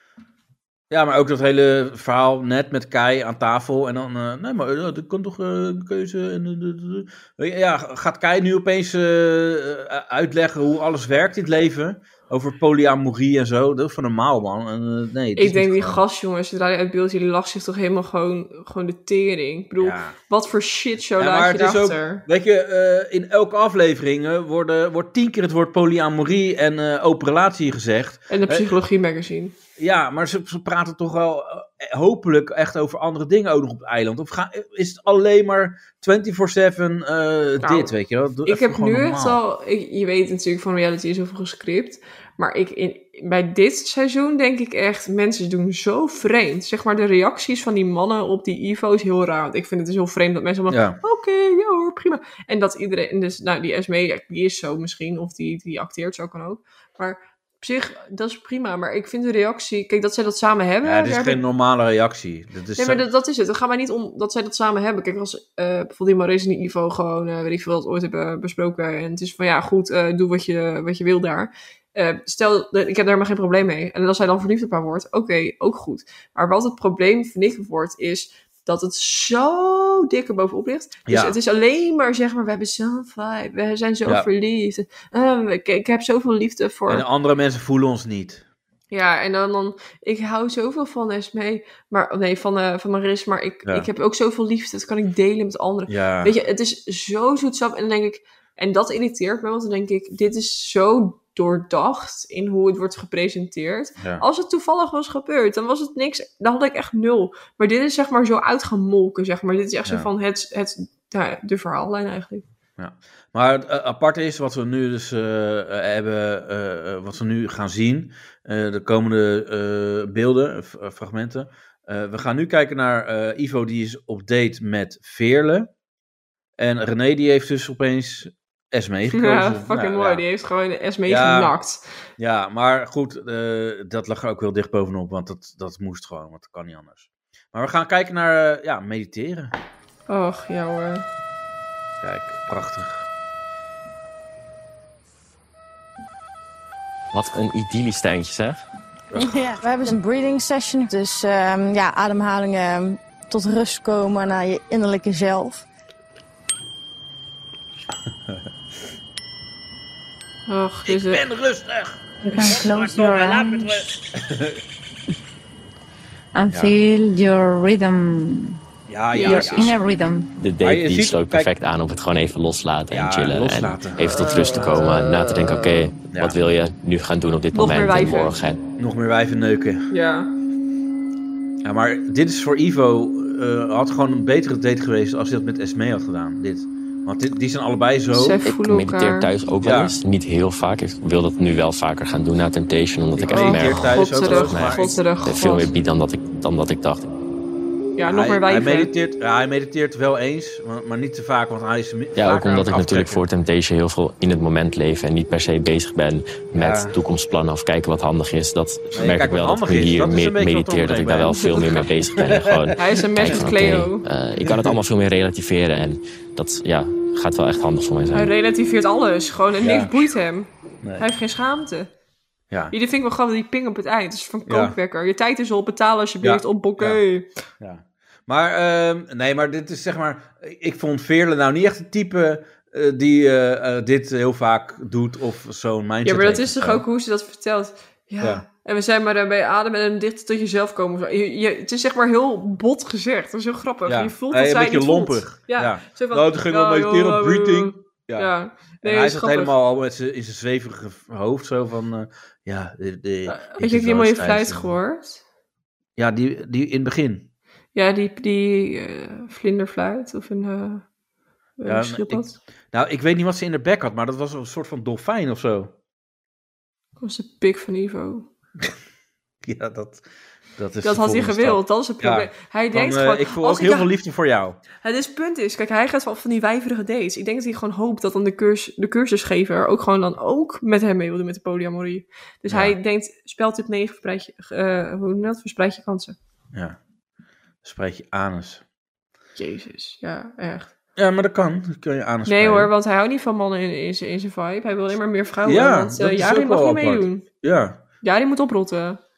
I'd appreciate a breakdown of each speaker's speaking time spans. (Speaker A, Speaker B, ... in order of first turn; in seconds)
Speaker A: 0.9-16.0, 19.8-20.2, 21.2-28.7, 29.8-39.4, 50.7-51.0, 60.8-63.1, 81.0-81.4, 86.9-88.4, 95.9-96.3, 112.8-125.7, 126.6-130.2, 131.1-131.5, 132.2-139.5, 142.0-143.0, 149.1-149.4, 160.9-164.6, 166.5-166.8, 168.9-169.8, 170.6-171.5, 172.9-174.8, 176.1-176.4, 178.8-179.8, 181.6-188.4, 189.6-189.9, 193.2-195.0, 198.1-203.2, 206.6-206.9, 208.9-211.4, 212.2-212.7, 214.4-214.8, 219.6-220.0, 222.5-222.7, 224.5-224.7, 226.2-227.0, 227.6-236.8, 243.8-248.3, 248.8-254.7, 256.0-257.3, 261.6-265.7, 269.4-270.0, 270.6-274.6, 282.5-282.8, 287.6-288.6, 291.0-292.7, 295.4-297.8
Speaker B: 15.3-22.2, 28.3-29.5, 37.6-37.9, 38.5-61.4, 62.7-87.1, 88.9-112.4, 129.1-131.8, 140.1-141.0, 160.5-161.2, 162.3-162.6, 169.1-169.8, 174.1-175.8, 177.5-178.4, 179.9-180.3, 188.1-189.3, 193.3-195.7, 197.9-198.9, 211.3-211.7, 212.8-214.0, 218.1-221.9, 222.7-227.3, 236.0-249.6, 253.3-255.2, 257.7-260.8, 261.6-262.4, 267.0-268.3, 270.8-273.9, 274.8-286.2, 289.4-290.7, 292.2-297.3, 298.0-299.0
Speaker C: 147.1-148.6, 170.4-178.6, 188.4-197.1, 202.2-218.3
Speaker D: 149.2-155.6
Speaker E: 166.4-167.0, 167.5-167.8, 169.2-170.2